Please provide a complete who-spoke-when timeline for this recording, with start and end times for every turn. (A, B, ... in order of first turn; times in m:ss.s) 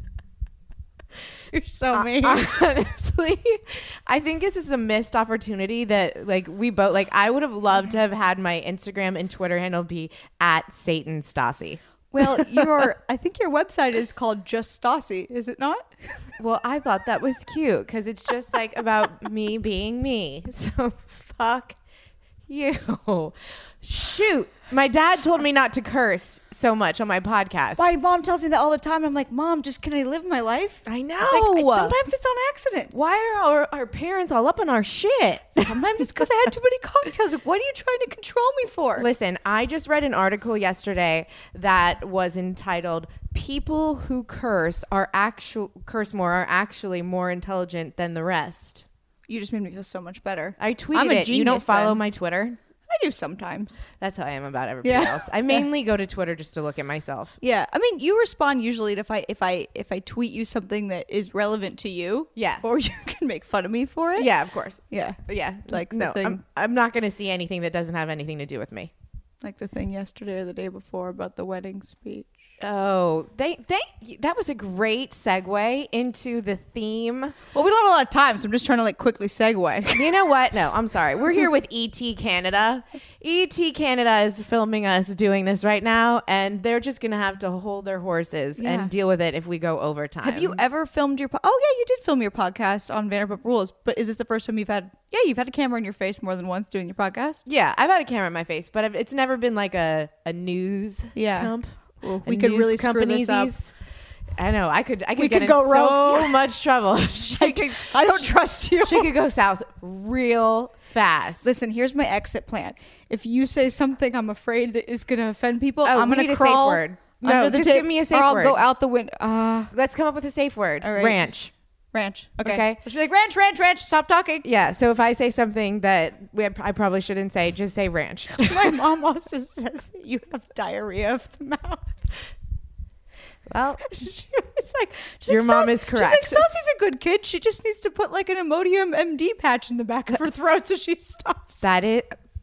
0:01.5-0:02.5 A
0:01.9-0:12.7 B
0:12.1-0:15.9 A
0:16.4-0:21.8 B
0:22.5-0:27.8 B
0:27.8-0:32.9 A
0:30.8-0:32.0 B
0:32.9-0:36.2 B
0:35.5-0:39.1 A
0:39.0-0:48.8 B
0:49.3-0:52.0 A
0:50.6-0:52.6 B
0:52.9-0:53.8 A
0:54.0-0:57.4 B
0:54.8-0:55.6 A
0:57.4-1:04.3 A
1:02.4-1:02.6 B
1:04.1-1:08.9 B
1:04.9-1:06.4 A
1:09.4-1:12.3 A
1:12.6-1:17.4 B
1:17.5-1:20.3 A
1:19.9-1:30.6 B
1:28.6-1:28.9 A
1:30.2-1:37.4 A
1:37.4-1:41.7 B
1:41.1-1:43.5 A
1:42.2-1:43.7 B
1:44.4-1:48.3 B
1:45.2-1:46.4 A
1:47.4-1:49.1 A
1:48.8-1:51.5 B
1:51.4-1:59.7 A
1:55.8-1:58.6 B
1:59.7-2:01.5 B
2:00.8-2:01.2 A
2:01.9-2:04.4 A
2:02.4-2:02.8 B
2:04.4-2:08.8 B
2:08.4-2:12.0 A
2:13.5-2:13.8 B
2:13.8-2:21.7 A
2:15.2-2:16.4 B
2:21.6-2:22.2 B